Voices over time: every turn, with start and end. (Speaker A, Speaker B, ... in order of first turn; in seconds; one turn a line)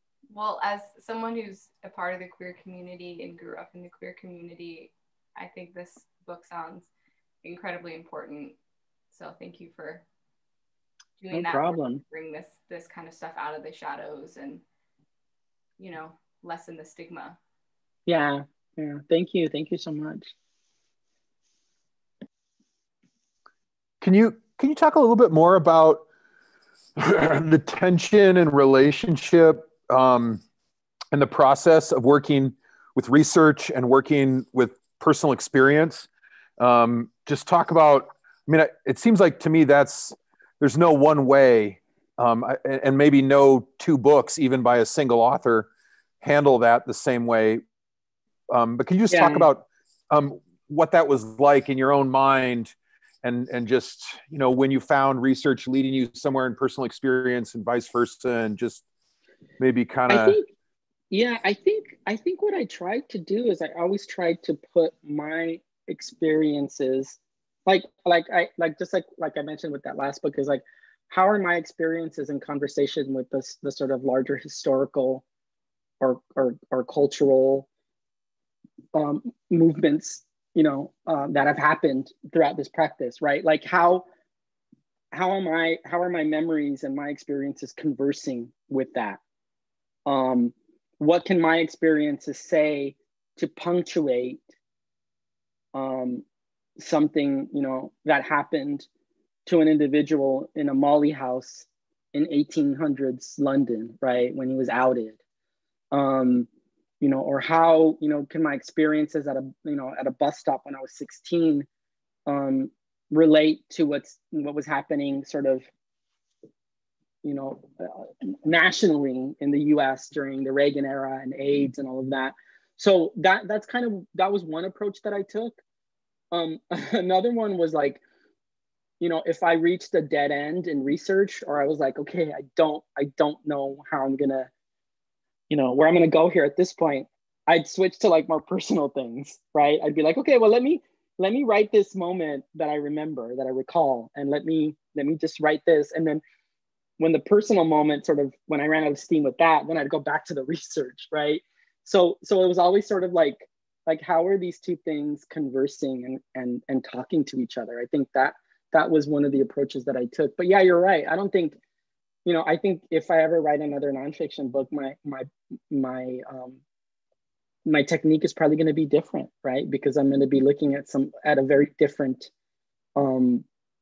Speaker A: 0.3-6.9
Speaker A: 7.4-8.6
Speaker A: 9.1-10.0
Speaker A: 11.2-14.6
Speaker B: 11.3-12.0
Speaker A: 15.8-17.4
Speaker B: 18.1-20.3
Speaker C: 24.0-26.0
Speaker C: 27.0-30.4
Speaker C: 31.1-36.1
Speaker C: 36.6-45.7
Speaker C: 46.2-47.6
Speaker C: 48.5-58.8
Speaker B: 49.1-49.5
Speaker C: 59.6-60.4
Speaker B: 60.1-60.5
Speaker B: 61.1-75.2
Speaker B: 76.0-77.7
Speaker B: 78.9-84.0
Speaker B: 85.1-89.2
Speaker B: 90.0-94.4
Speaker B: 95.7-96.2
Speaker B: 96.8-98.9
Speaker B: 99.5-105.2
Speaker B: 105.9-106.5
Speaker B: 107.0-111.7
Speaker B: 112.3-115.7
Speaker B: 117.2-125.6
Speaker B: 126.3-128.0
Speaker B: 129.0-134.5
Speaker B: 135.5-146.2
Speaker B: 147.0-161.6
Speaker B: 162.2-166.6
Speaker B: 167.7-172.3
Speaker B: 173.0-173.4